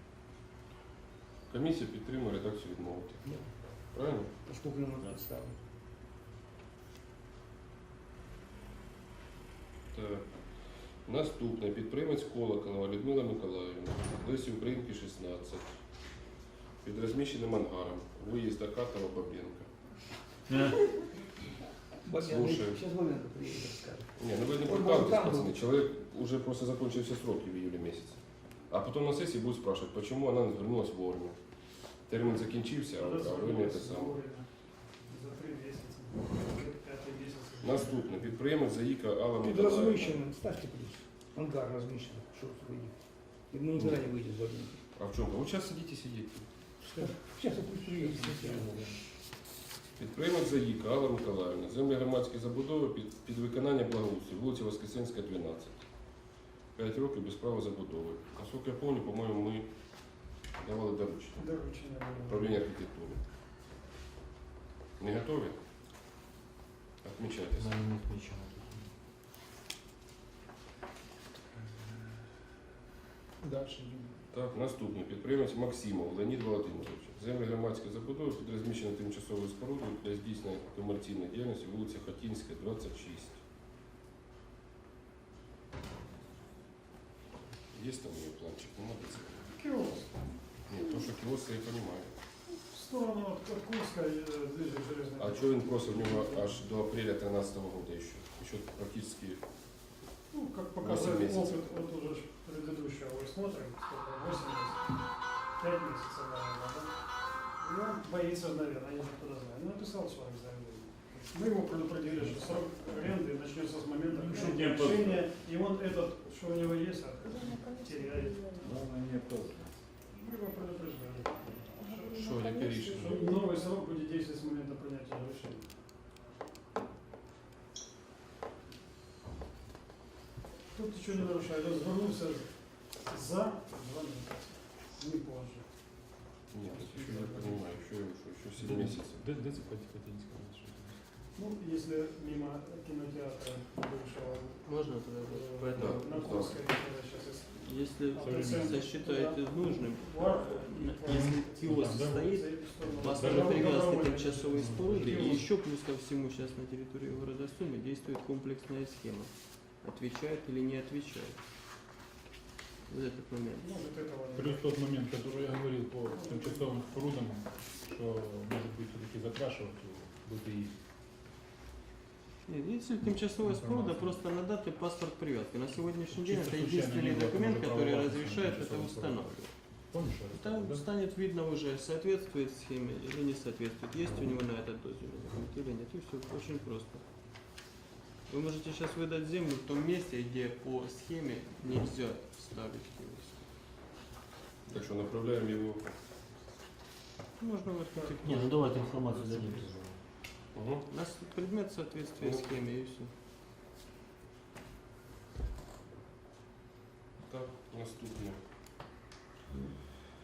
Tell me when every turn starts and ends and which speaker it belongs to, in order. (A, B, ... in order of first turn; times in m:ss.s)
0:01.5-0:04.3 A
0:03.2-0:03.9 B
0:04.4-0:05.6 B
0:09.9-0:16.3 A
0:16.8-0:19.7 A
0:22.0-0:25.6 B
0:22.2-0:22.8 A
0:24.1-0:34.2 A
0:32.8-0:38.0 C
0:37.6-0:40.2 A
0:39.4-0:44.8 B
0:43.8-0:44.0 A
0:44.9-0:46.7 A
0:46.8-0:49.0 B
0:47.0-0:49.0 D
0:50.0-1:01.5 A
1:01.4-1:02.6 C
1:02.2-1:03.2 A
1:05.0-1:05.6 A
1:07.0-1:07.8 A
1:07.6-1:08.9 E
1:13.4-1:14.1 B
1:13.4-1:14.0 D
1:14.3-1:23.4 A
1:27.7-1:29.5 A
1:29.5-1:30.3 C
1:30.7-1:32.1 A
1:32.6-1:36.5 C
1:35.2-1:39.4 A
1:40.3-1:58.5 C
1:40.8-1:41.6 A
1:52.2-1:52.4 D
1:54.1-1:55.3 D
1:58.6-1:59.6 D
2:00.1-2:05.6 C
2:02.1-2:03.3 A
2:10.7-2:15.7 C
2:16.5-2:19.2 A
2:16.7-2:17.6 C
2:18.6-2:21.2 D
2:21.3-2:35.5 C
2:24.6-2:26.5 F
2:25.7-2:26.6 A
2:27.6-2:41.4 F
2:28.2-2:28.8 D
2:31.0-2:35.4 D
2:42.9-2:43.8 F
2:43.6-2:44.7 C
2:44.3-2:50.8 D
2:46.1-2:46.7 C
2:52.4-3:07.0 F
2:53.4-2:54.2 D
2:56.1-3:00.9 D
3:08.3-3:13.5 F
3:14.7-3:15.9 A
3:17.4-3:19.1 F
3:18.2-3:20.0 E
3:20.5-3:20.9 A
3:20.9-3:23.1 F
3:22.2-3:22.5 A
3:27.2-3:28.4 A